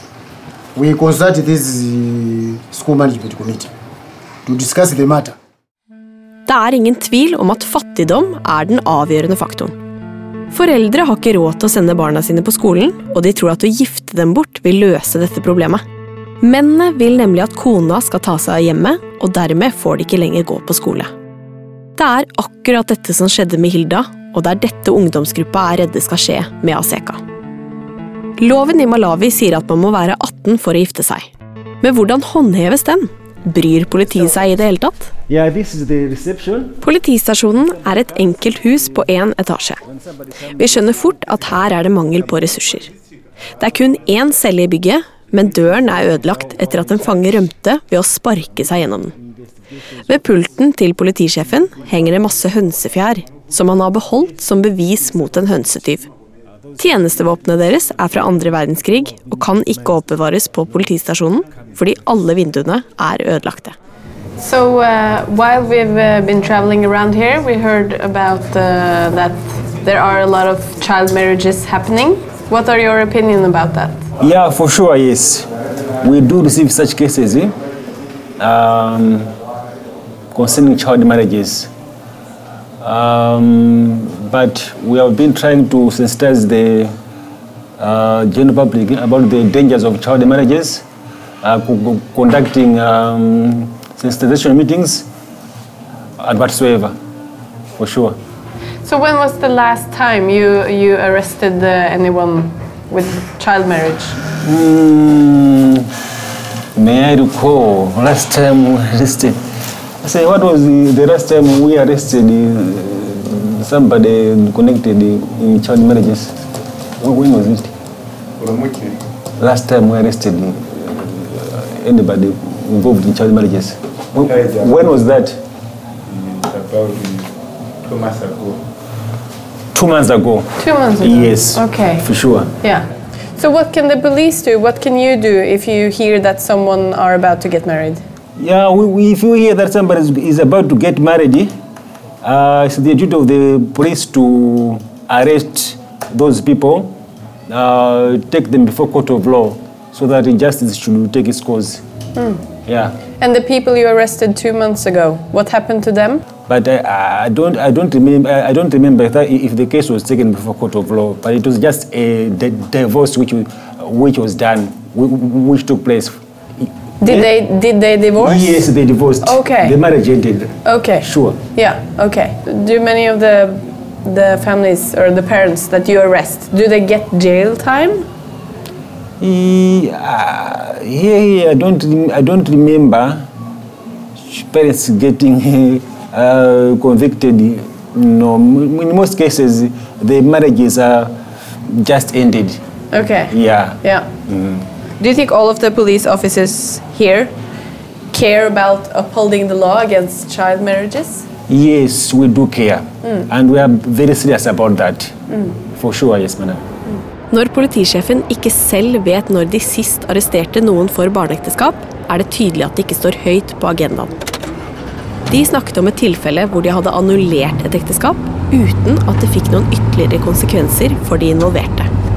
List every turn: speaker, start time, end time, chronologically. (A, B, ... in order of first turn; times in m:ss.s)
0:00.7-0:03.7 A
0:04.4-0:05.4 A
0:06.5-0:09.7 B
0:10.5-0:15.8 B
0:16.4-0:21.1 B
0:22.0-0:27.2 B
0:28.4-0:31.3 B
0:31.8-0:35.1 B
0:35.3-0:36.8 C
0:36.8-0:39.8 B
0:40.5-0:42.9 B
0:43.6-0:49.1 B
0:50.1-0:56.1 B
0:56.8-1:03.7 B
1:04.4-1:14.0 D
1:14.2-1:15.5 C
1:16.0-1:17.5 C
1:18.4-1:19.3 C
1:20.3-1:21.7 C
1:22.8-1:26.9 C
1:27.8-1:30.8 C
1:31.4-1:35.1 C
1:36.2-1:36.9 C
1:37.8-1:38.2 C
1:38.8-1:44.2 D
1:44.4-1:45.9 C
1:46.8-1:49.4 C
1:50.0-1:56.4 C
1:57.0-1:57.7 C
1:58.4-1:59.0 E
1:59.4-2:05.4 C
2:04.2-2:04.7 E
2:06.1-2:07.3 E
2:07.8-2:08.6 E
2:09.7-2:12.5 C
2:10.6-2:12.1 D
2:12.6-2:18.0 D
2:18.4-2:21.5 C
2:22.2-2:27.0 C
2:27.5-2:31.8 C
2:32.1-2:32.4 D
2:32.6-2:32.9 C
2:33.2-2:36.2 D
2:36.5-2:47.3 C
2:47.0-2:49.8 D
2:48.2-2:51.4 C
2:50.6-2:58.1 D
2:59.2-3:03.3 C
3:04.3-3:11.1 C
3:11.7-3:12.6 C
3:12.9-3:14.1 D
3:13.3-3:14.6 C
3:15.0-3:17.3 D
3:18.1-3:21.2 D
3:21.5-3:25.1 C
3:25.7-3:26.6 C
3:27.3-3:34.2 B
3:35.3-3:41.9 B